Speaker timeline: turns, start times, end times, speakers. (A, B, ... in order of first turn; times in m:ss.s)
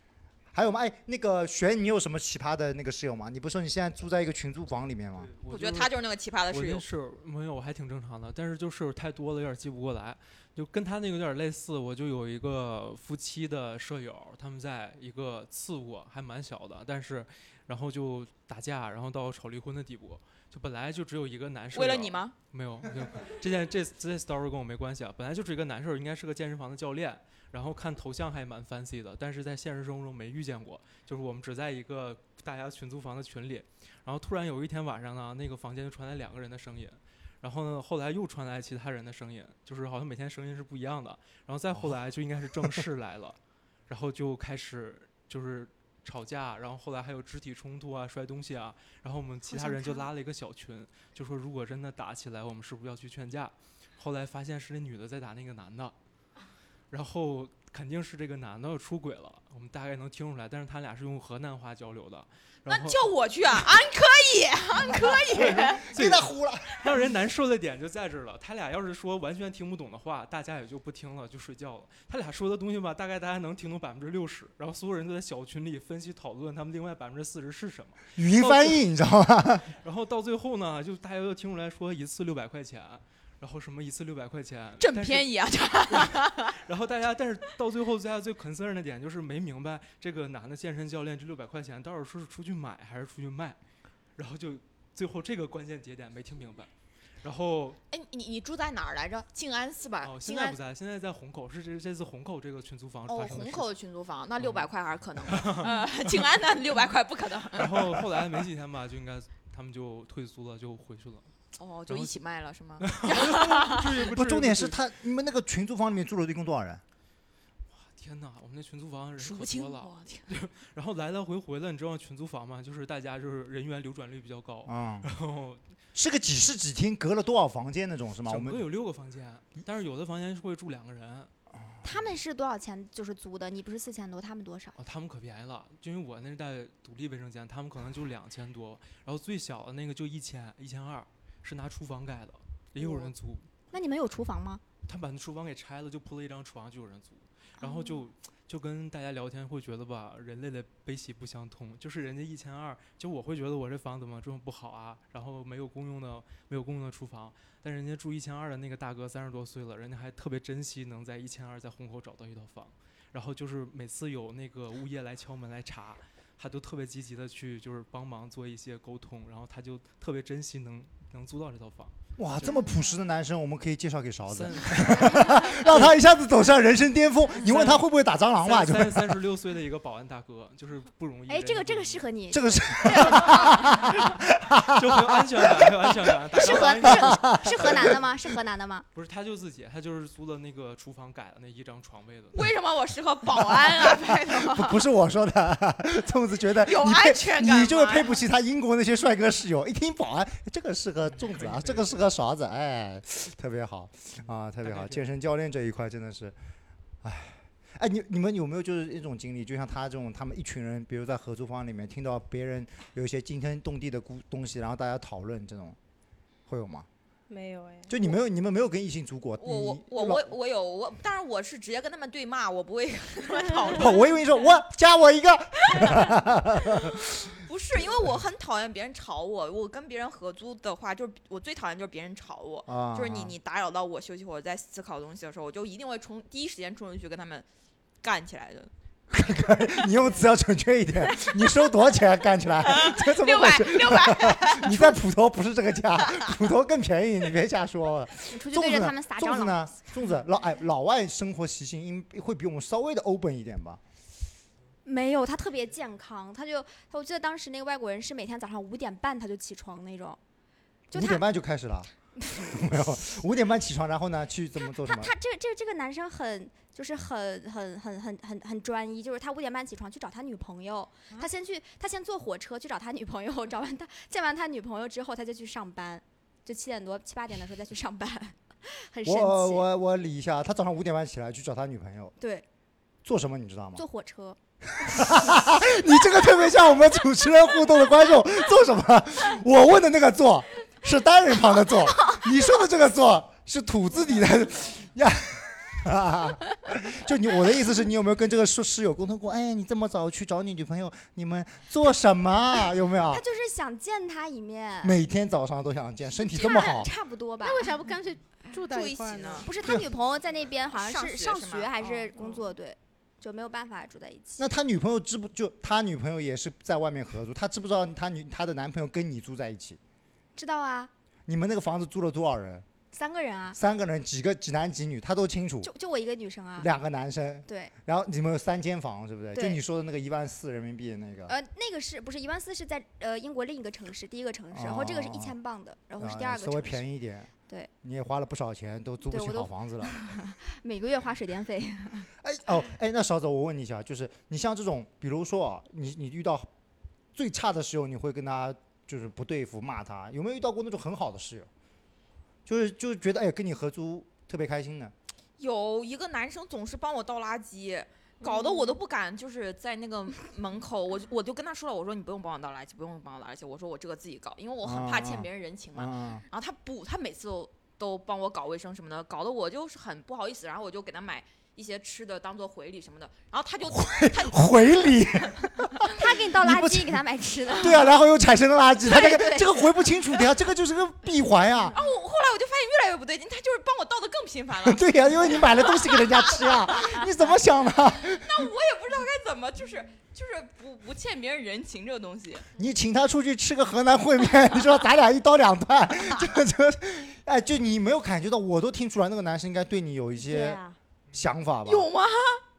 0:00.5-0:05.3 A
0:05.1-0:06.0 B
0:05.5-0:06.8 C
0:06.5-0:55.9 B
0:21.7-0:22.4 C
0:56.9-1:03.1 B
1:02.6-1:06.1 C
1:04.9-1:18.8 B
1:05.4-1:06.9 A
1:18.2-1:19.7 A
1:19.7-1:25.3 B
1:24.8-1:26.6 C
1:25.9-1:33.6 B
1:34.2-1:36.7 B
1:37.2-1:37.8 B
1:37.9-1:40.6 C
1:40.0-1:43.7 B
1:43.1-1:48.1 C
1:44.4-1:44.7 B
1:45.2-1:45.8 B
1:47.5-1:51.3 B
1:51.6-1:54.0 C
1:51.9-1:52.1 B
1:52.8-1:54.8 B
1:54.0-1:56.8 A
1:57.7-2:05.6 B
1:59.2-2:00.3 C
2:04.6-2:05.1 A
2:05.9-2:08.6 A
2:08.2-2:11.3 B
2:11.8-2:14.8 D
2:14.8-2:23.5 B
2:22.8-2:23.1 D
2:23.7-2:24.6 D
2:24.8-2:52.6 B
2:27.6-2:28.0 D
2:52.2-2:59.2 A
2:54.2-2:56.0 B
2:57.4-3:02.0 B
3:01.3-3:03.6 D
3:02.3-3:08.0 A
3:02.9-3:07.9 B
3:06.3-3:08.8 D
3:08.9-3:12.5 B
3:12.3-3:14.8 C
3:14.3-3:26.3 A
3:16.6-3:18.2 C
3:21.2-3:22.0 B
3:24.6-3:25.1 B
3:27.0-3:35.8 A
3:36.5-3:36.9 A
3:37.3-3:37.9 E
3:37.9-3:40.3 A
3:39.4-3:44.2 C
3:43.7-3:47.0 A
3:46.8-3:57.4 C
3:52.7-3:53.3 A
3:58.0-3:58.7 C
3:59.1-4:13.8 A
4:02.6-4:05.0 C
4:08.3-4:09.7 D
4:14.8-4:20.2 D
4:20.9-4:21.2 D
4:20.9-4:25.1 A
4:22.2-4:22.6 D
4:24.8-4:39.7 D
4:39.0-4:42.2 A
4:42.2-4:42.4 D
4:43.0-4:43.8 A
4:43.8-4:44.4 D
4:44.7-5:03.2 A
4:44.9-4:45.6 D
5:03.1-5:05.0 D
5:04.8-5:06.9 A
5:06.3-5:07.7 D
5:07.4-5:09.5 E
5:08.7-5:09.5 C
5:09.4-5:14.4 D
5:10.7-5:12.1 C
5:14.4-5:19.8 A
5:20.3-5:20.9 D
5:21.3-5:22.6 A
5:22.9-5:23.6 D
5:23.5-5:25.7 A
5:25.6-5:26.7 D
5:26.6-5:31.3 A
5:27.5-5:27.7 D
5:29.3-5:29.6 D
5:31.3-5:36.8 D
5:34.5-5:35.3 A
5:36.0-5:37.3 A
5:37.8-5:39.9 A
5:39.1-5:42.1 D
5:42.2-5:46.5 A
5:47.1-5:51.5 A
5:52.4-5:54.9 A
5:55.4-6:15.0 C
5:58.2-5:58.8 E
6:04.6-6:06.2 A
6:13.7-6:17.0 A
6:15.9-6:17.9 D
6:17.6-6:21.8 A
6:18.8-6:19.7 D
6:21.7-6:27.1 C
6:24.6-6:28.4 A
6:28.0-6:32.5 C
6:32.6-6:40.6 A
6:40.2-6:40.8 E
6:41.1-6:41.9 A
6:41.6-6:42.4 C